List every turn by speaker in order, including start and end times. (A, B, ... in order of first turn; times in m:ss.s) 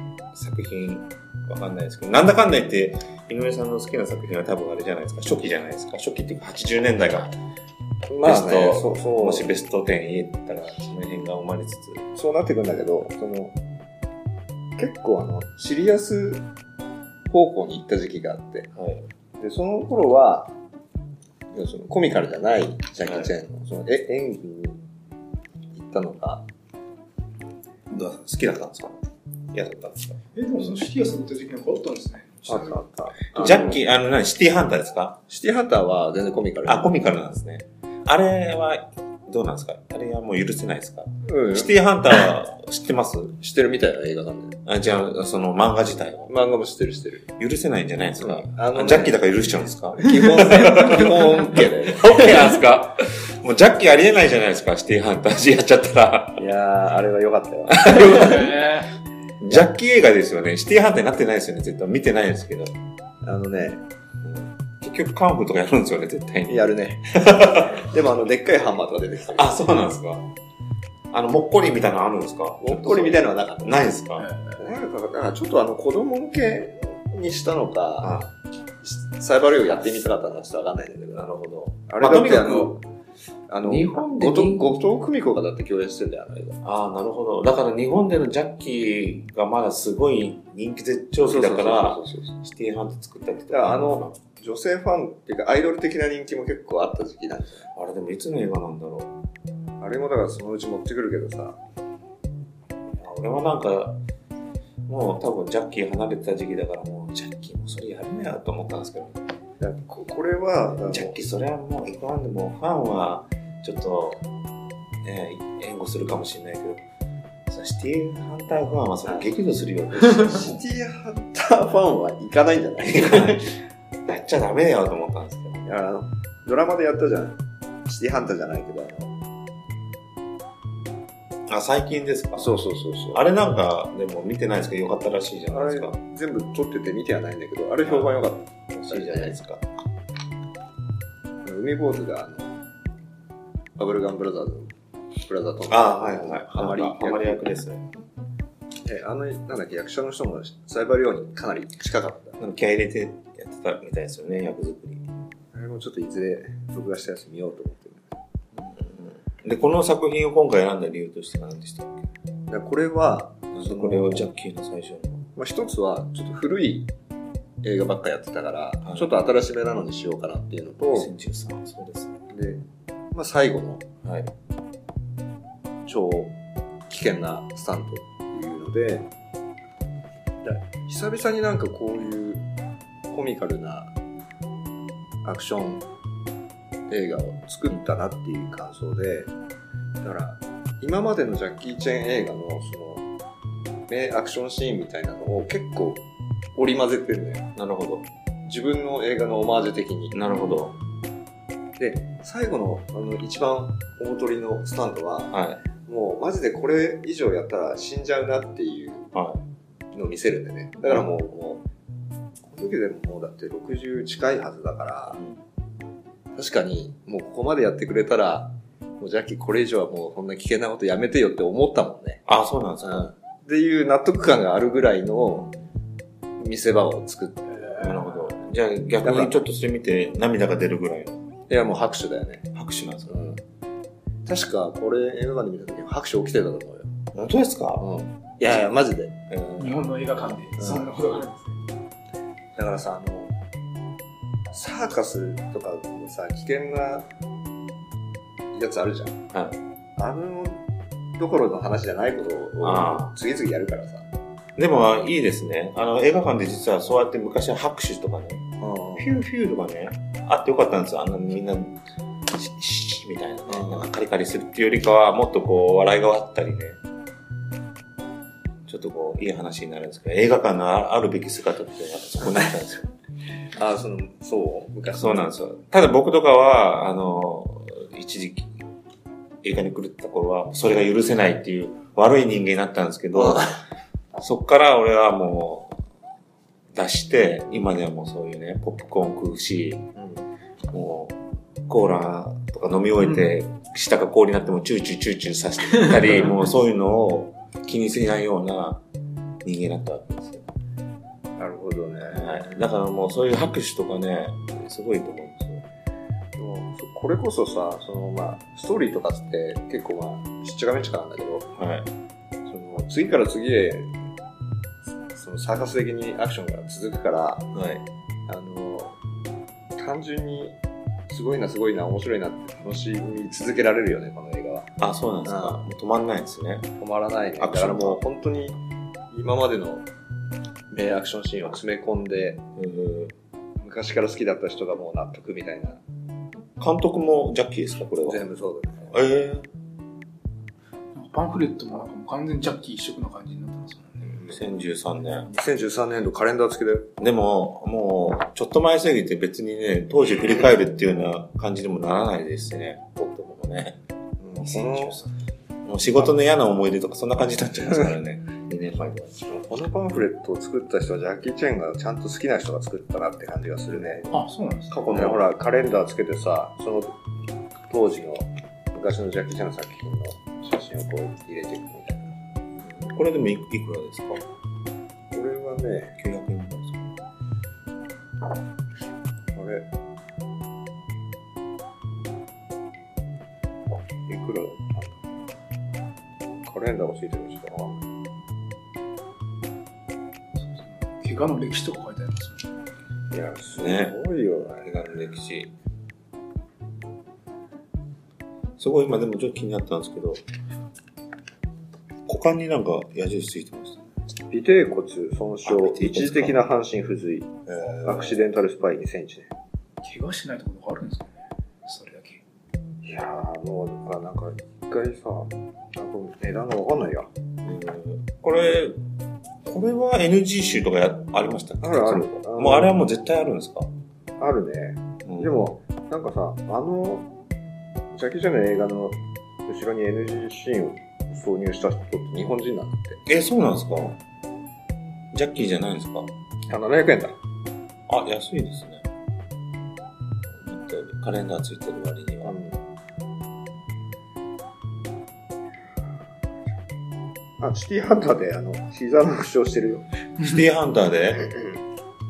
0:00.3-0:07.4 A
0:08.1-0:09.5 B
0:08.2-0:12.1 A
0:12.2-0:13.6 B
0:14.8-0:16.5 B
0:17.3-0:18.7 B
0:18.7-0:19.1 A
0:19.4-0:20.6 B
0:21.5-0:24.8 B
0:23.0-0:23.3 A
0:25.7-0:26.5 B
0:27.9-0:29.0 A
0:29.5-0:30.7 A
0:30.4-0:32.9 C
0:32.5-0:33.8 B
0:33.4-0:35.2 A
0:35.3-0:36.9 B
0:36.6-0:43.4 A
0:41.2-0:41.7 B
0:43.4-0:44.6 B
0:44.6-0:46.3 A
0:46.3-0:47.3 B
0:47.4-0:56.5 A
0:48.2-0:49.2 B
0:50.0-0:52.5 B
0:56.4-0:58.6 B
0:57.7-0:58.6 A
0:58.1-0:58.9 C
0:59.4-1:02.7 A
1:03.2-1:03.8 B
1:04.2-1:07.8 A
1:06.5-1:09.5 B
1:09.3-1:10.3 A
1:11.1-1:14.3 A
1:12.6-1:13.8 B
1:14.2-1:14.6 C
1:14.6-1:18.2 B
1:18.0-1:18.3 A
1:18.8-1:21.3 B
1:21.1-1:22.8 A
1:21.9-1:22.8 B
1:23.5-1:26.6 B
1:23.6-1:24.7 A
1:26.6-1:34.2 A
1:31.2-1:32.4 B
1:33.5-1:37.7 B
1:37.7-1:39.1 A
1:39.8-1:41.6 B
1:42.9-1:44.0 A
1:44.9-1:49.2 A
1:49.6-1:51.2 B
1:50.7-1:54.3 A
1:55.0-1:56.8 A
1:57.5-2:00.6 A
2:00.0-2:03.5 B
2:02.9-2:03.5 A
2:04.1-2:05.7 A
2:05.6-2:09.1 B
2:11.5-2:12.6 A
2:12.4-2:13.2 B
2:13.1-2:16.0 A
2:15.5-2:19.4 B
2:17.8-2:18.1 A
2:18.7-2:19.8 A
2:21.4-2:22.5 B
2:23.8-2:24.7 B
2:25.2-2:27.5 B
2:25.7-2:27.8 A
2:28.8-2:32.4 B
2:32.4-2:35.0 A
2:35.5-2:38.2 B
2:38.6-2:42.0 A
2:42.5-2:44.3 B
2:43.6-2:45.2 A
2:45.4-2:46.9 B
2:47.6-2:51.1 B
2:48.8-2:49.1 A
2:50.9-2:52.2 A
2:52.3-2:52.6 B
2:53.1-2:53.9 B
2:54.0-2:54.3 A
2:55.9-2:56.3 B
2:56.9-2:59.1 B
3:00.4-3:02.4 B
3:03.1-3:03.9 B
3:05.2-3:05.8 B
3:06.9-3:09.3 B
3:10.0-3:13.0 B
3:13.9-3:16.0 B
3:16.6-3:17.5 B
3:17.6-3:18.1 A
3:18.4-3:20.2 B
3:20.1-3:20.8 A
3:21.8-3:29.1 B
3:25.3-3:25.6 A
3:29.1-3:29.4 A
3:29.9-3:31.6 B
3:32.4-3:35.2 B
3:35.1-3:35.4 A
3:36.4-3:42.2 B
3:42.3-3:43.1 A
3:42.8-3:45.5 B
3:46.4-3:47.9 B
3:47.8-3:51.2 A
3:49.0-3:49.4 B
3:51.5-3:52.5 B
3:52.5-3:53.2 A
3:53.1-3:53.4 B
3:54.2-3:56.9 B
3:57.1-3:57.9 A
3:57.8-3:59.2 B
3:59.3-3:59.7 A
3:59.6-4:01.6 C
4:00.6-4:00.9 B
4:02.6-4:03.3 B
4:04.5-4:07.1 B
4:08.5-4:09.2 B
4:09.3-4:09.6 A
4:10.0-4:10.6 B
4:11.2-4:14.1 B
4:12.6-4:13.1 A
4:14.6-4:18.5 A
4:18.6-4:19.2 B
4:19.0-4:26.8 A
4:23.5-4:23.9 B
4:28.7-4:32.9 A
4:33.6-4:35.2 B
4:34.9-4:38.5 A
4:39.4-4:43.5 A
4:43.1-4:43.6 B
4:44.2-4:45.8 A
4:46.7-4:49.9 A
4:50.0-4:50.2 B
4:50.7-4:58.8 A
4:59.4-5:00.5 A
5:01.4-5:02.6 B
5:02.1-5:05.6 A
5:06.4-5:11.5 B
5:11.6-5:11.9 A
5:12.5-5:13.9 B
5:15.1-5:17.5 B
5:17.5-5:17.8 A
5:18.3-5:19.0 B
5:19.8-5:20.6 B
5:21.1-5:24.7 B
5:24.8-5:26.7 A
5:25.2-5:25.6 B
5:26.8-5:28.6 B
5:27.4-5:28.0 A
5:29.1-5:29.9 B
5:30.7-5:32.4 B
5:32.6-5:33.1 A
5:33.6-5:35.8 B
5:36.6-5:38.2 A
5:38.0-5:39.0 B
5:38.9-5:39.5 A
5:40.9-5:44.1 C
5:44.1-5:44.4 B
5:44.3-5:45.3 A
5:45.3-5:46.9 B
5:47.0-5:53.8 A
5:54.2-5:55.0 B
5:54.4-5:55.0 A
5:55.6-5:59.2 A
5:59.3-6:04.2 B
6:03.7-6:04.1 A
6:04.1-6:04.9 C
6:04.7-6:05.2 A
6:04.8-6:06.9 B
6:07.7-6:12.1 B
6:12.6-6:14.2 A
6:15.1-6:16.0 B
6:16.0-6:17.0 A
6:19.3-6:19.7 B
6:24.1-6:25.0 B
6:26.4-6:27.9 B
6:30.4-6:32.5 C
6:33.1-6:35.0 B
6:33.6-6:34.0 A
6:34.5-6:35.5 A
6:38.6-6:40.2 A
6:42.1-6:43.8 A
6:44.3-6:49.3 B
6:45.4-6:46.4 A
6:47.5-6:48.3 A
6:49.8-6:52.2 C
6:52.8-6:57.1 B
6:57.4-6:58.8 A
6:59.4-7:03.7 A
7:01.6-7:02.8 B
7:04.2-7:07.1 B
7:05.0-7:05.4 A
7:07.9-7:13.0 B
7:13.1-7:14.0 A
7:15.1-7:16.1 A
7:16.5-7:17.2 B
7:17.9-7:18.9 A
7:20.3-7:22.4 A
7:22.2-7:22.6 B
7:27.4-7:29.8 B
7:30.2-7:31.3 A